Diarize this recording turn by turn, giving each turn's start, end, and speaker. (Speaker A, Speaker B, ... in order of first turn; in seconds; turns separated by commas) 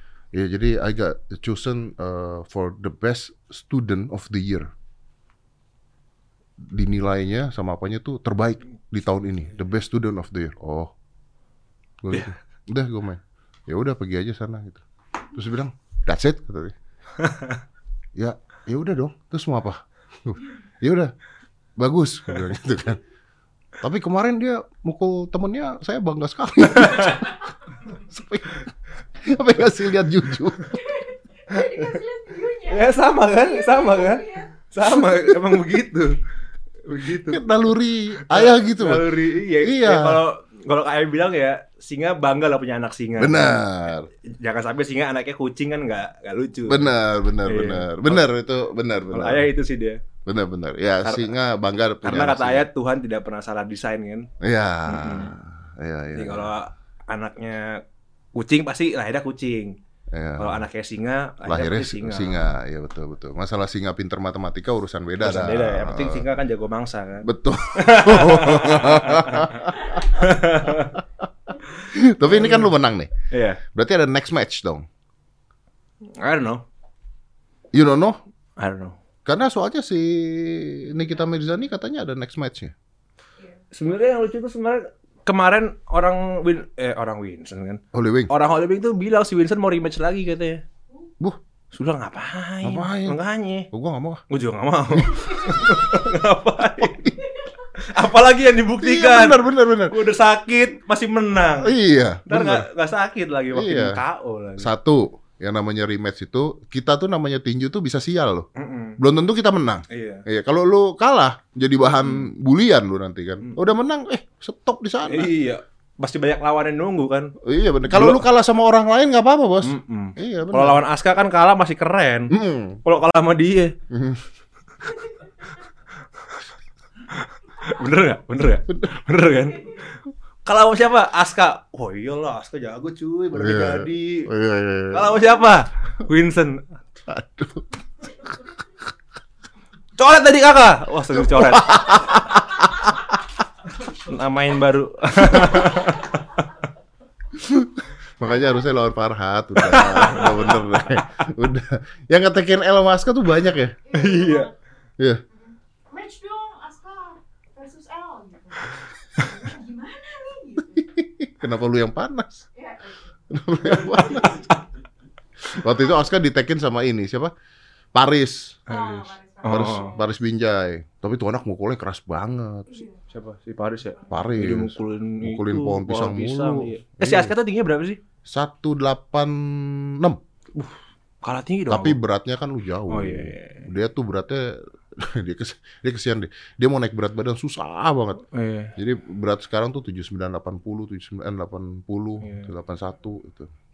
Speaker A: 0.3-4.7, Speaker A: 6.6-10.9, Speaker A: 12.0-14.8, Speaker A: 15.3-16.8, Speaker B: 17.2-17.6, Speaker A: 18.2-21.1, Speaker A: 21.8-23.0, Speaker A: 23.8-27.3, Speaker B: 26.8-27.2, Speaker A: 28.1-28.7, Speaker A: 29.2-30.8, Speaker C: 31.5-34.4, Speaker B: 32.7-36.2, Speaker B: 36.9-37.4, Speaker A: 37.2-40.2, Speaker B: 38.2-43.6, Speaker A: 43.2-44.1, Speaker B: 44.3-46.9, Speaker A: 46.7-49.5, Speaker B: 47.4-48.2, Speaker B: 49.1-50.0, Speaker A: 50.3-52.7, Speaker B: 51.0-51.3, Speaker B: 52.0-54.3, Speaker A: 54.4-56.5, Speaker B: 54.9-55.3, Speaker B: 56.1-57.8, Speaker B: 58.4-59.8, Speaker A: 60.1-60.7, Speaker B: 60.4-62.5, Speaker A: 61.5-66.2, Speaker B: 65.2-71.0, Speaker A: 67.2-71.0, Speaker A: 71.9-73.1, Speaker B: 72.2-72.7, Speaker B: 73.3-73.6, Speaker A: 73.6-74.8, Speaker B: 76.2-76.6, Speaker A: 77.7-78.2, Speaker B: 78.6-79.0, Speaker A: 79.3-82.7, Speaker B: 83.7-90.6, Speaker A: 87.9-88.3, Speaker B: 91.7-93.7, Speaker A: 92.6-93.2, Speaker A: 93.7-94.2, Speaker B: 94.3-97.1, Speaker A: 96.8-97.1, Speaker B: 97.8-101.7, Speaker A: 98.8-99.9, Speaker A: 101.6-102.7, Speaker B: 102.3-104.7, Speaker A: 103.5-104.0, Speaker A: 104.6-108.5, Speaker B: 108.6-109.0, Speaker A: 109.0-115.3, Speaker B: 109.9-110.2, Speaker B: 115.1-117.3, Speaker A: 117.4-120.8, Speaker B: 117.9-118.2, Speaker B: 119.6-123.8, Speaker A: 122.3-122.8, Speaker A: 123.9-124.2, Speaker B: 127.1-134.3, Speaker A: 133.3-135.1, Speaker B: 134.9-136.7, Speaker A: 137.1-137.7, Speaker B: 140.0-141.9, Speaker A: 141.1-142.9, Speaker B: 143.9-146.4, Speaker A: 147.4-153.8, Speaker B: 149.6-151.0, Speaker C: 153.9-154.5, Speaker B: 153.9-154.5, Speaker C: 155.3-160.9, Speaker A: 160.8-162.4, Speaker C: 162.6-163.1, Speaker A: 163.3-164.4, Speaker C: 163.7-164.4, Speaker B: 164.3-164.6, Speaker A: 165.5-167.3, Speaker A: 167.9-168.6, Speaker B: 168.7-169.9, Speaker C: 168.7-170.0, Speaker A: 169.5-172.8, Speaker C: 172.7-173.0, Speaker B: 173.1-178.0, Speaker A: 174.1-177.3, Speaker A: 178.3-180.2, Speaker B: 180.6-182.0, Speaker A: 181.7-188.2, Speaker B: 182.9-183.6, Speaker B: 188.3-188.7, Speaker A: 188.8-193.5, Speaker B: 192.2-192.5